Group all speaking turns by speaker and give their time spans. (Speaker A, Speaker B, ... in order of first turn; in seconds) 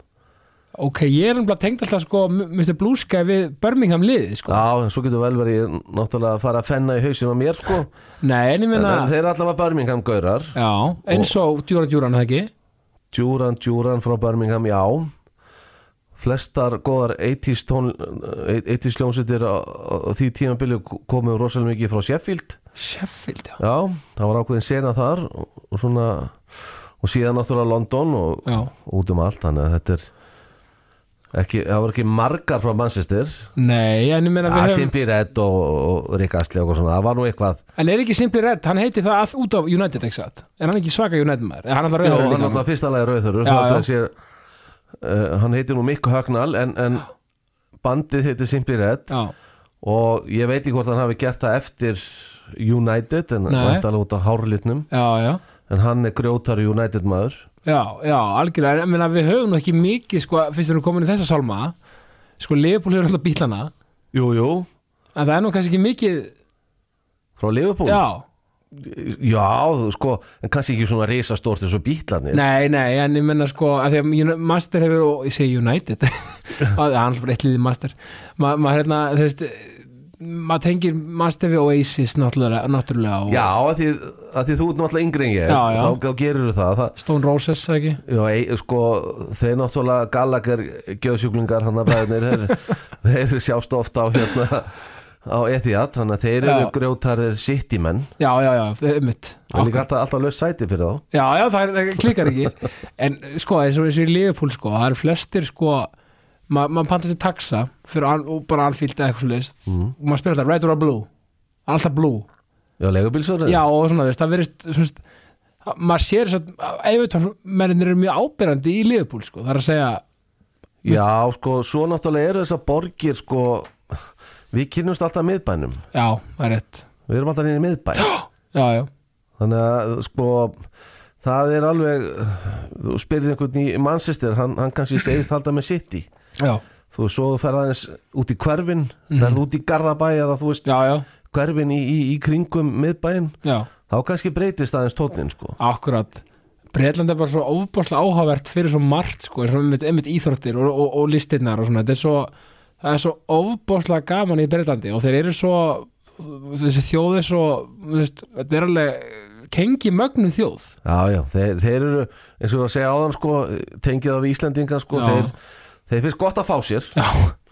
Speaker A: 0.8-4.6, 8.2-9.1, 10.5-12.5, 22.8-23.6, 33.5-34.9, 37.8-42.6, 43.4-43.9, 53.5-53.8, 54.9-55.4, 57.6-61.7, 62.4-63.7, 65.1-66.3, 67.8-68.2, 72.3-83.5, 85.5-86.0, 87.0-88.0, 96.4-96.7, 98.2-99.8, 101.1-105.9, 106.5-111.1, 111.7-112.3, 113.4-115.0, 115.6-120.0, 125.9-126.8, 128.0-128.9, 139.1-139.4, 140.6-141.1, 143.4-143.7, 145.6-160.7, 164.9-165.3, 166.9-167.3
Speaker B: 4.5-7.9, 8.7-10.6, 11.1-11.3, 13.1-15.1, 16.2-22.6, 23.6-26.4, 27.0-30.1, 31.3-33.5, 34.5-37.6, 42.0-44.1, 45.0-47.1, 47.8-49.1, 49.8-54.9, 55.7-57.5, 64.1-64.7, 67.4-68.0, 68.7-72.4, 83.3-87.0, 88.0-98.1, 99.5-101.0, 112.8-113.6, 120.8-124.0, 124.5-125.8, 127.1-128.1, 129.4-130.6, 131.2-136.1, 136.9-140.7, 141.2-143.3, 143.9-145.6, 160.8-165.3, 165.9-166.9